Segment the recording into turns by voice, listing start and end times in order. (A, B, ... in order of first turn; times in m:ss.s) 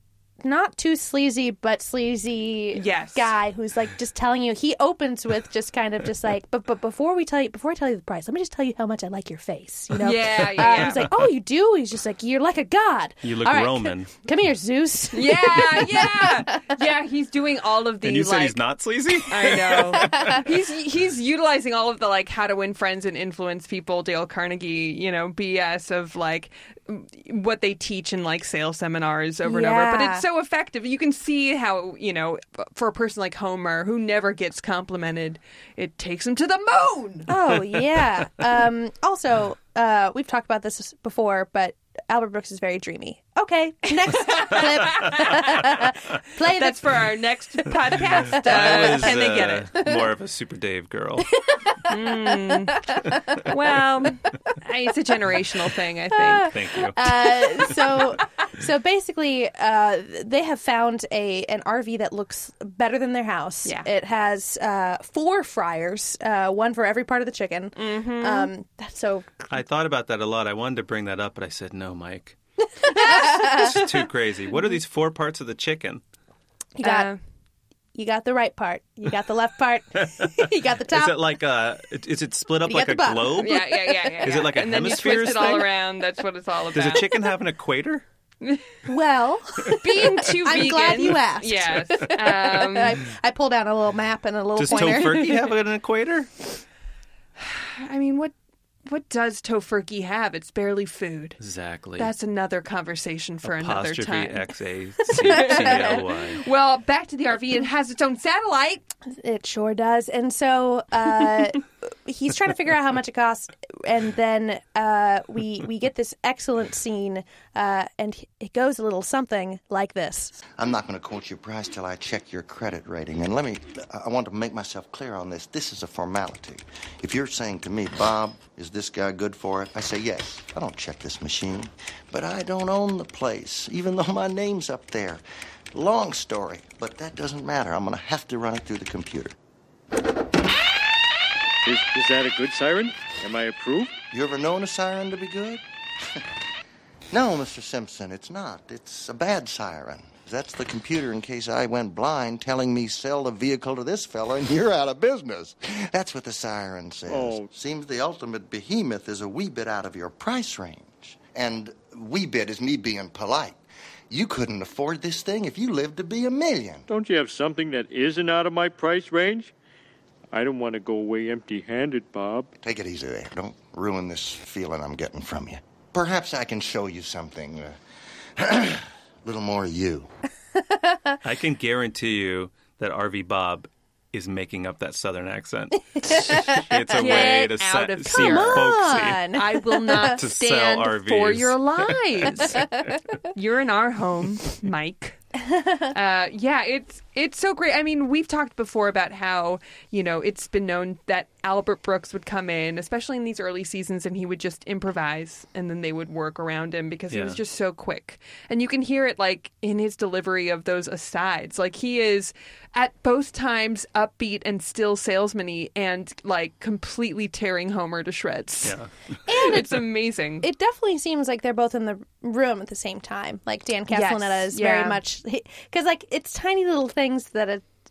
0:00.4-0:16.7 A
0:02.7-0:03.3 B
0:10.0-0:11.1 B
0:13.2-0:14.1 C
0:15.1-0:18.6 B
0:18.0-0:20.4 C
0:19.3-0:37.3 B
0:20.0-0:20.4 A
0:29.4-0:30.2 A
0:37.3-0:46.8 A
0:44.1-0:45.5 B
0:46.5-0:49.7 B
0:48.4-0:51.3 C
0:48.6-0:49.0 A
0:51.5-0:52.4 A
0:51.9-0:52.9 B
0:53.4-0:56.6 B
0:56.3-1:09.5 A
0:56.4-0:57.2 C
1:07.8-1:08.5 B
1:09.5-1:12.4 C
1:12.8-1:13.9 A
1:13.0-1:16.0 C
1:16.8-1:17.1 A
1:16.8-1:17.2 B
1:18.0-1:21.2 A
1:20.2-1:25.7 C
1:22.7-1:24.2 A
1:23.4-1:27.2 B
1:26.7-1:28.0 C
1:28.4-1:28.7 B
1:28.9-1:35.3 A
1:29.7-1:33.0 B
1:34.6-1:36.3 C
1:34.9-1:35.4 B
1:37.4-1:38.3 B
1:38.9-1:41.4 B
1:41.4-1:42.1 C
1:42.0-1:44.4 B
1:43.4-1:46.4 C
1:45.1-1:48.9 B
1:49.1-2:00.4 A
2:00.6-2:19.4 D
2:21.6-2:23.9 E
2:24.1-2:25.6 D
2:27.1-2:43.6 D
2:37.1-2:37.5 E
2:44.1-2:46.9 D
2:46.9-2:49.5 E
2:50.3-2:52.5 E
2:52.6-2:57.8 D
2:58.4-3:00.1 D
3:00.6-3:01.2 A
3:01.2-3:09.3 C
3:06.1-3:07.5 A
3:07.0-3:12.7 B
3:08.1-3:10.2 A
3:10.0-3:12.7 C
3:13.3-3:15.2 B
3:15.5-3:15.9 A
3:15.9-3:40.4 B
3:27.1-3:27.4 C
3:38.6-3:38.9 C
3:39.3-3:39.6 A
3:40.4-3:47.6 A
3:43.9-3:45.0 B